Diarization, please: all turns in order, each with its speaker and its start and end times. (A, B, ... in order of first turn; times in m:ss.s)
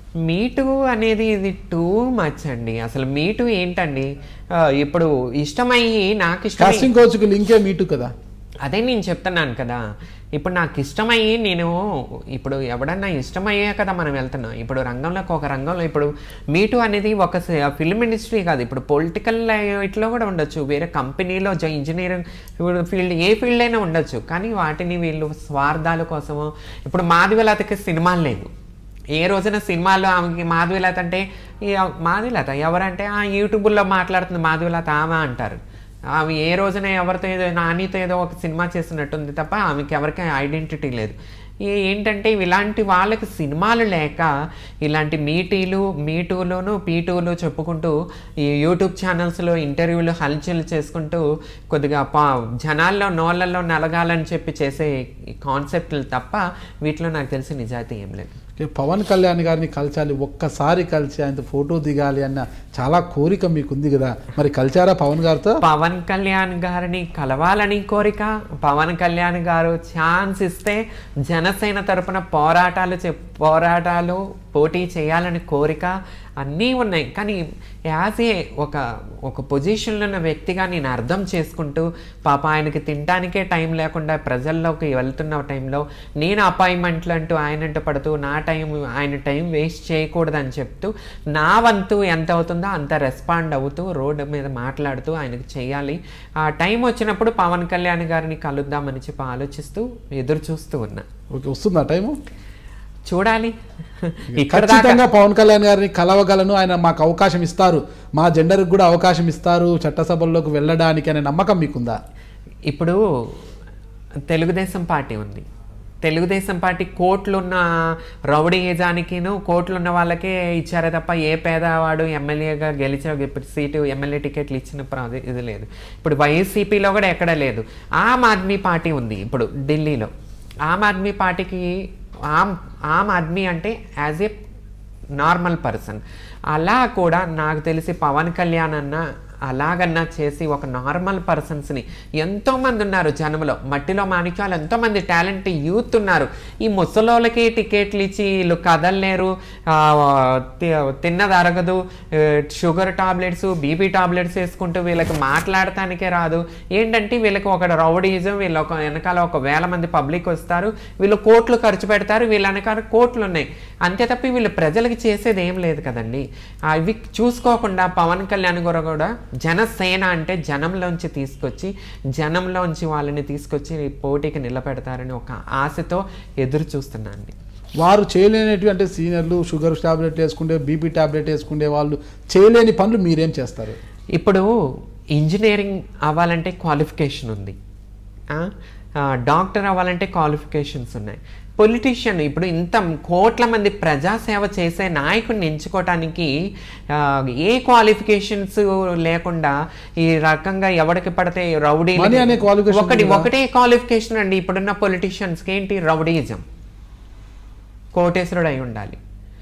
0:00.2-0:06.9 A
0:06.6-0:08.1 B
0:08.6-0:09.8 A
0:10.4-0:28.5 A
0:29.1-0:35.6 A
0:36.1-0:44.3 A
0:44.8-0:58.3 A
0:58.6-1:05.6 B
1:05.6-1:41.0 A
1:41.3-1:42.2 B
1:43.1-1:45.0 A
1:44.3-1:52.0 B
1:52.7-1:53.4 A
1:54.3-1:55.4 A
1:56.0-2:10.1 A
2:10.6-2:11.7 A
2:12.3-2:14.3 A
2:15.2-2:57.3 A
2:57.8-3:03.8 B
3:04.1-3:04.5 A
3:05.1-3:07.6 A
3:08.3-3:16.3 A
3:16.9-3:26.4 A
3:22.0-3:23.3 B
3:27.9-3:29.0 A